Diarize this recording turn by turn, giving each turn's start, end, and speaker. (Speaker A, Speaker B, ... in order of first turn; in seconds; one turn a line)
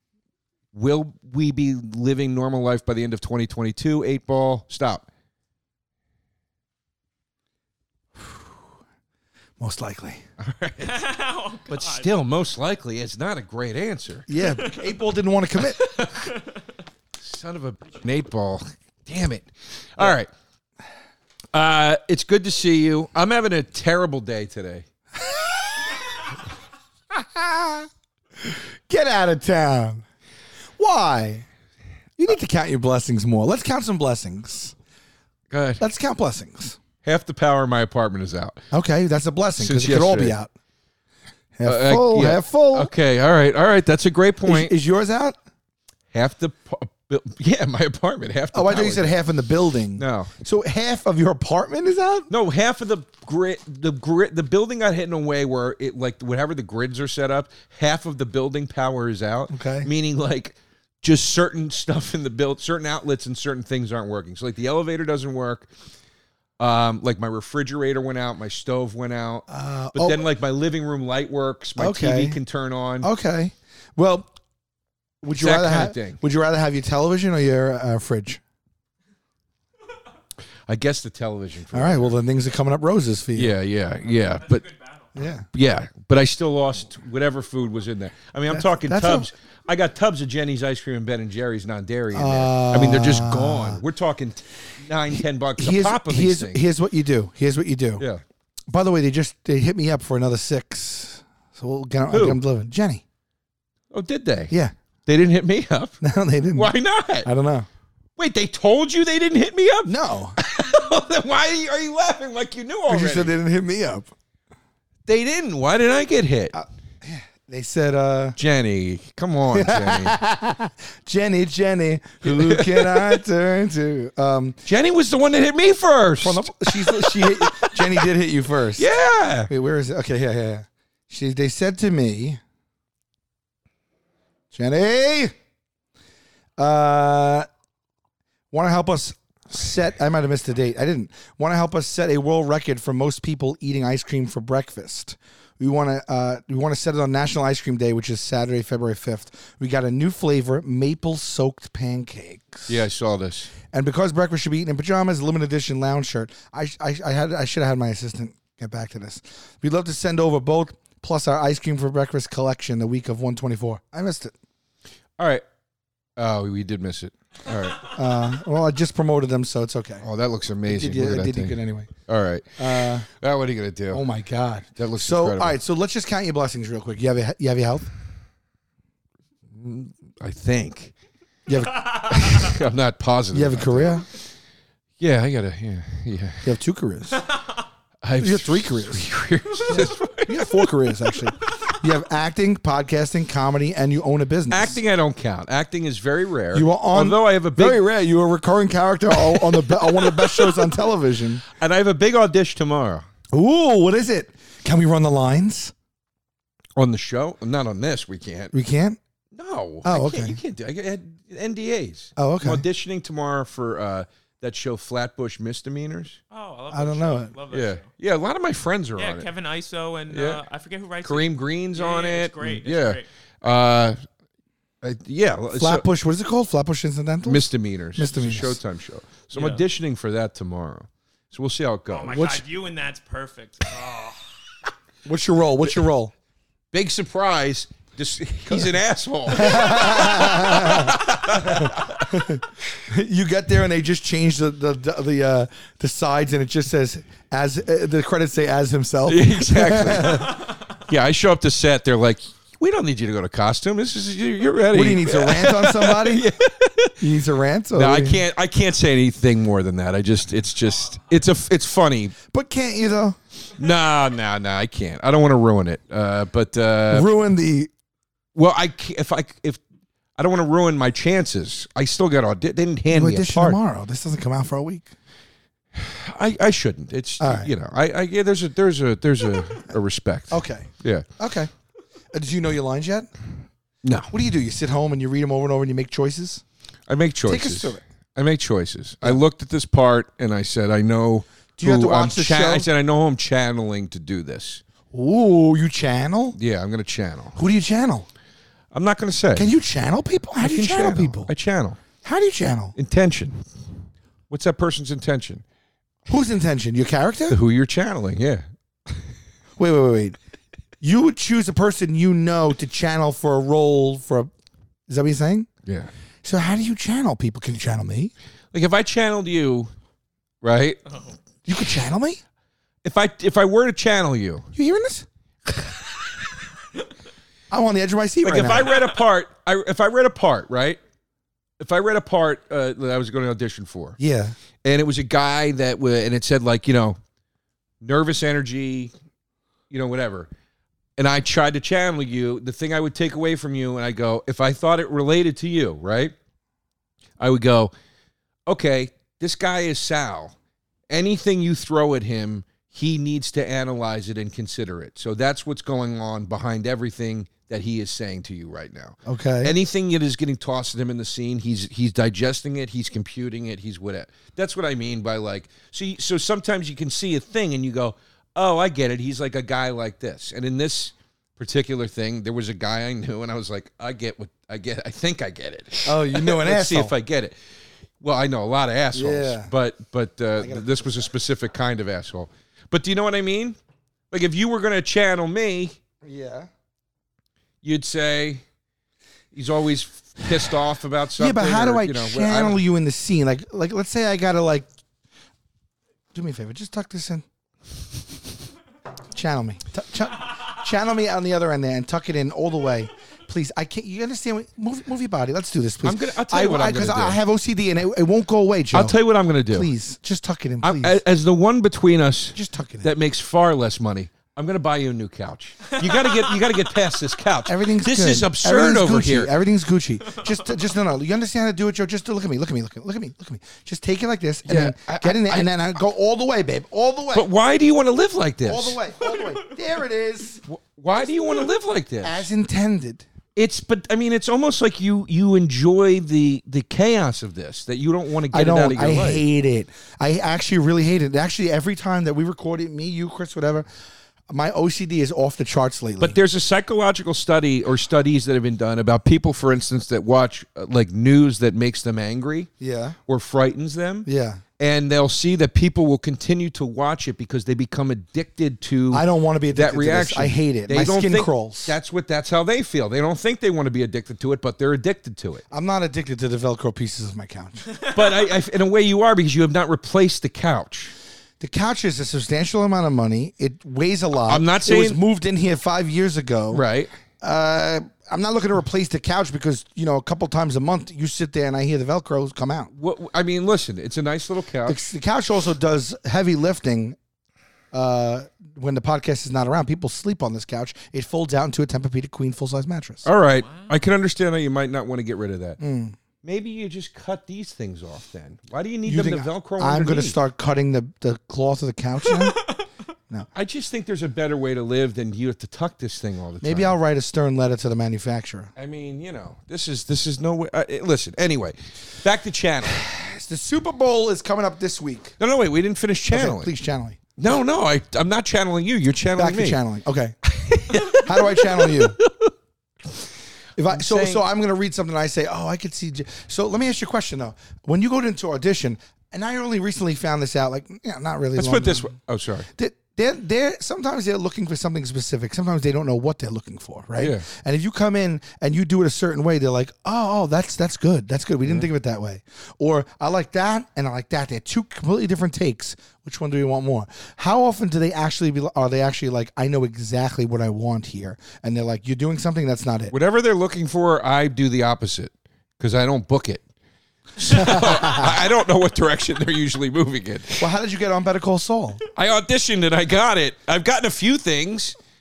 Speaker A: 0.7-5.1
Speaker B: 8.2-8.5
Speaker B: 9.6-10.2
Speaker A: 10.4-11.0
Speaker C: 10.8-12.1
Speaker A: 11.7-14.3
Speaker B: 14.3-15.9
Speaker C: 14.6-14.9
Speaker A: 15.9-16.2
Speaker C: 16.0-16.5
Speaker A: 17.2-20.3
Speaker A: 21.5-24.9
Speaker B: 25.2-26.2
Speaker B: 27.1-27.9
Speaker B: 28.4-30.0
Speaker B: 30.8-31.5
Speaker B: 32.2-34.8
Speaker A: 35.5-35.8
Speaker B: 35.8-36.8
Speaker A: 37.0-38.6
Speaker B: 38.7-40.5
Speaker A: 39.6-40.4
Speaker B: 41.6-42.9
Speaker A: 41.6-44.7
Speaker B: 44.5-45.4
Speaker A: 46.1-49.2
Speaker B: 48.5-52.3
Speaker A: 50.0-50.3
Speaker A: 52.3-65.7
Speaker B: 59.5-59.9
Speaker A: 66.6-73.1
Speaker B: 69.5-70.2
Speaker B: 71.8-72.4
Speaker B: 73.0-74.3
Speaker B: 75.2-78.4
Speaker A: 75.4-76.2
Speaker A: 80.7-82.2
Speaker B: 81.7-83.6
Speaker A: 83.3-84.7
Speaker B: 85.2-85.5
Speaker A: 85.5-96.6
Speaker B: 88.5-89.3
Speaker B: 92.1-93.8
Speaker B: 95.2-98.0
Speaker B: 98.7-103.0
Speaker A: 102.1-102.4
Speaker A: 103.9-104.5
Speaker A: 105.1-106.0
Speaker B: 106.0-106.7
Speaker A: 106.5-107.3
Speaker B: 107.2-107.7
Speaker A: 108.2-113.3
Speaker B: 109.9-110.4
Speaker B: 112.9-114.1
Speaker A: 115.1-116.6
Speaker B: 116.5-118.4
Speaker A: 118.4-120.2
Speaker B: 119.5-124.6
Speaker A: 122.2-123.2
Speaker A: 124.7-128.0
Speaker B: 126.2-128.9
Speaker A: 128.8-129.5
Speaker B: 129.5-132.4
Speaker B: 134.5-135.3
Speaker B: 136.6-137.5
Speaker B: 138.5-152.7
Speaker A: 152.7-153.5
Speaker B: 153.7-164.3
Speaker A: 165.2-165.4
Speaker A: 166.2-167.9
Speaker B: 167.8-170.1
Speaker A: 170.0-174.1
Speaker B: 170.7-171.9
Speaker B: 172.6-173.1
Speaker B: 173.9-177.9
Speaker A: 174.8-175.6
Speaker A: 179.5-180.9
Speaker B: 181.5-181.8
Speaker A: 182.0-184.2
Speaker B: 183.3-184.1
Speaker A: 185.0-186.6
Speaker B: 186.4-187.2
Speaker A: 188.0-190.7
Speaker B: 188.2-189.1
Speaker B: 189.7-194.8
Speaker A: 194.5-197.8
Speaker B: 196.5-201.4
Speaker A: 199.2-200.6
Speaker A: 201.5-203.1
Speaker B: 203.3-205.7
Speaker A: 206.8-208.6
Speaker B: 208.5-209.0
Speaker A: 209.3-216.2
Speaker B: 209.8-210.4
Speaker B: 212.2-212.6
Speaker C: 216.3-217.8
Speaker B: 216.7-217.3
Speaker A: 217.5-219.3
Speaker C: 219.0-223.1
Speaker A: 220.1-220.4
Speaker A: 221.0-224.0
Speaker A: 224.8-225.8
Speaker B: 225.6-228.6
Speaker A: 227.2-232.3
Speaker C: 229.3-229.6
Speaker C: 231.9-234.3
Speaker B: 232.1-232.4
Speaker B: 235.1-236.1
Speaker A: 236.7-242.2
Speaker B: 239.3-250.4
Speaker A: 249.1-257.0
Speaker B: 254.7-256.3
Speaker B: 257.0-258.2
Speaker A: 257.7-262.2
Speaker B: 262.3-263.2
Speaker A: 263.6-267.1
Speaker B: 266.9-267.7
Speaker A: 268.4-269.6
Speaker A: 270.2-273.6
Speaker B: 272.9-274.9
Speaker A: 275.8-281.1
Speaker B: 277.2-277.5
Speaker B: 280.3-281.5
Speaker B: 282.1-283.1
Speaker A: 283.8-284.1
Speaker B: 284.1-286.4
Speaker A: 286.9-294.6
Speaker B: 287.3-287.8
Speaker B: 291.6-292.7
Speaker B: 294.9-296.4
Speaker A: 296.4-297.4
Speaker B: 297.4-298.1
Speaker A: 298.7-299.5
Speaker B: 299.4-301.3
Speaker A: 300.4-301.8
Speaker B: 302.0-302.8
Speaker A: 302.8-303.4
Speaker A: 304.3-305.4
Speaker B: 306.1-307.4
Speaker A: 307.3-309.1
Speaker B: 309.6-310.2
Speaker B: 310.8-314.3
Speaker B: 314.9-315.5
Speaker A: 315.7-315.9
Speaker B: 316.2-318.1
Speaker A: 318.5-319.7
Speaker A: 320.4-320.8
Speaker B: 321.5-322.2
Speaker A: 322.8-324.5
Speaker B: 324.6-325.1
Speaker B: 327.5-328.7
Speaker A: 328.2-330.8
Speaker A: 331.6-334.0
Speaker B: 334.0-334.4
Speaker A: 334.6-337.0
Speaker A: 337.8-338.9
Speaker A: 339.7-340.3
Speaker A: 341.0-346.1
Speaker A: 347.2-347.7
Speaker A: 348.5-350.4
Speaker A: 350.9-377.4
Speaker B: 359.1-359.5
Speaker B: 375.9-376.9
Speaker A: 378.0-383.6
Speaker B: 378.9-379.5
Speaker B: 380.4-381.1
Speaker A: 384.1-385.8
Speaker B: 386.0-386.5
Speaker A: 387.6-388.4
Speaker A: 389.3-392.6
Speaker B: 391.2-394.7
Speaker B: 396.1-397.2
Speaker B: 399.1-411.0
Speaker A: 405.8-407.2
Speaker A: 408.7-409.7
Speaker A: 410.6-419.3
Speaker B: 412.3-412.9
Speaker B: 417.5-427.3
Speaker A: 424.5-425.5
Speaker A: 427.1-428.8
Speaker B: 428.4-430.4
Speaker A: 430.5-432.3
Speaker B: 432.0-433.1
Speaker A: 433.4-439.2
Speaker B: 438.3-443.7
Speaker B: 444.3-446.2
Speaker A: 446.0-452.5
Speaker B: 452.6-453.0
Speaker A: 453.1-454.1
Speaker B: 454.1-454.4
Speaker A: 454.6-465.4
Speaker B: 458.9-461.8
Speaker B: 465.5-467.7
Speaker A: 467.9-470.9
Speaker B: 471.4-476.6
Speaker A: 474.3-475.0
Speaker A: 476.5-476.9
Speaker B: 477.2-482.7
Speaker A: 482.8-484.8
Speaker B: 484.7-487.0
Speaker B: 487.7-493.1
Speaker A: 493.1-495.6
Speaker C: 493.4-493.7
Speaker B: 495.6-496.0
Speaker A: 496.2-500.2
Speaker B: 498.9-502.4
Speaker A: 503.3-506.8
Speaker B: 506.4-508.5
Speaker A: 508.6-512.8
Speaker B: 512.7-515.1
Speaker A: 515.2-516.5
Speaker B: 516.1-517.0
Speaker A: 517.2-519.6
Speaker B: 519.2-520.2
Speaker A: 520.3-522.3
Speaker B: 520.7-522.0
Speaker B: 523.6-531.9
Speaker A: 523.7-524.2
Speaker A: 531.4-532.5
Speaker B: 532.5-552.9
Speaker A: 537.0-537.3
Speaker A: 552.9-556.5
Speaker A: 557.2-560.5
Speaker B: 557.3-558.1
Speaker B: 560.4-561.8
Speaker A: 562.0-564.8